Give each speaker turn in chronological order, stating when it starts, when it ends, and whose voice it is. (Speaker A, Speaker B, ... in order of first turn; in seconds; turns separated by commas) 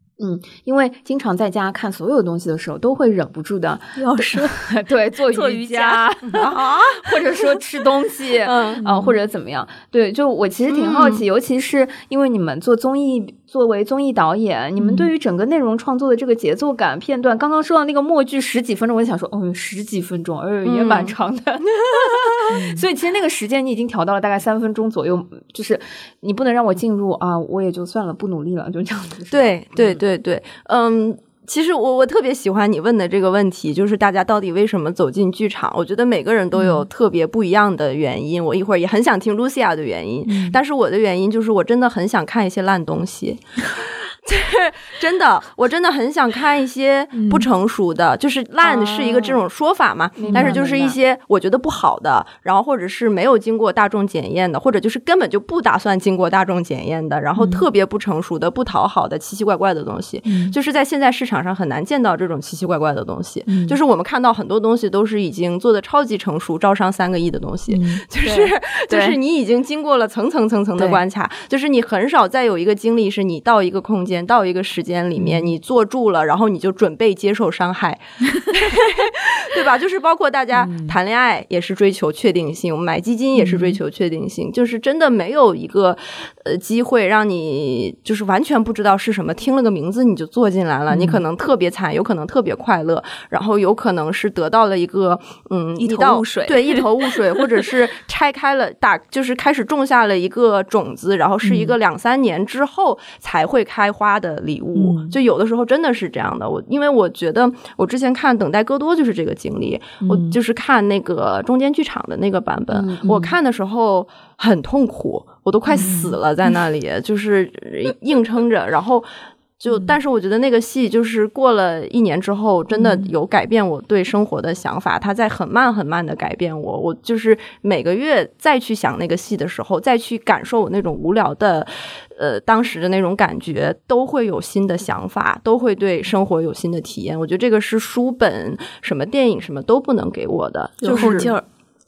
Speaker A: 0.2-29.9, Speaker B: 4.0-4.7, Speaker B: 5.3-6.5, Speaker C: 6.3-6.8, Speaker C: 8.4-8.8, Speaker B: 8.8-9.2, Speaker C: 10.7-11.2, Speaker B: 14.8-15.1, Speaker C: 20.6-21.2, Speaker C: 21.8-22.4, Speaker B: 22.5-22.9, Speaker C: 29.3-119.1, Speaker B: 36.5-36.9, Speaker B: 40.3-40.6, Speaker B: 47.2-47.5, Speaker A: 48.6-49.4, Speaker A: 50.2-51.0, Speaker B: 50.3-50.6, Speaker B: 57.4-57.6, Speaker B: 60.2-60.6, Speaker B: 63.5-63.8, Speaker B: 67.7-68.0, Speaker A: 68.2-69.1, Speaker B: 75.2-75.5, Speaker B: 80.5-81.0, Speaker B: 83.3-83.8, Speaker B: 90.9-91.2, Speaker B: 95.8-97.7, Speaker B: 101.4-101.8, Speaker B: 104.8-105.2, Speaker B: 110.1-110.4, Speaker A: 112.7-113.3, Speaker B: 115.8-116.2, Speaker C: 119.6-141.3, Speaker B: 122.7-123.1, Speaker B: 140.8-141.4, Speaker A: 140.9-141.3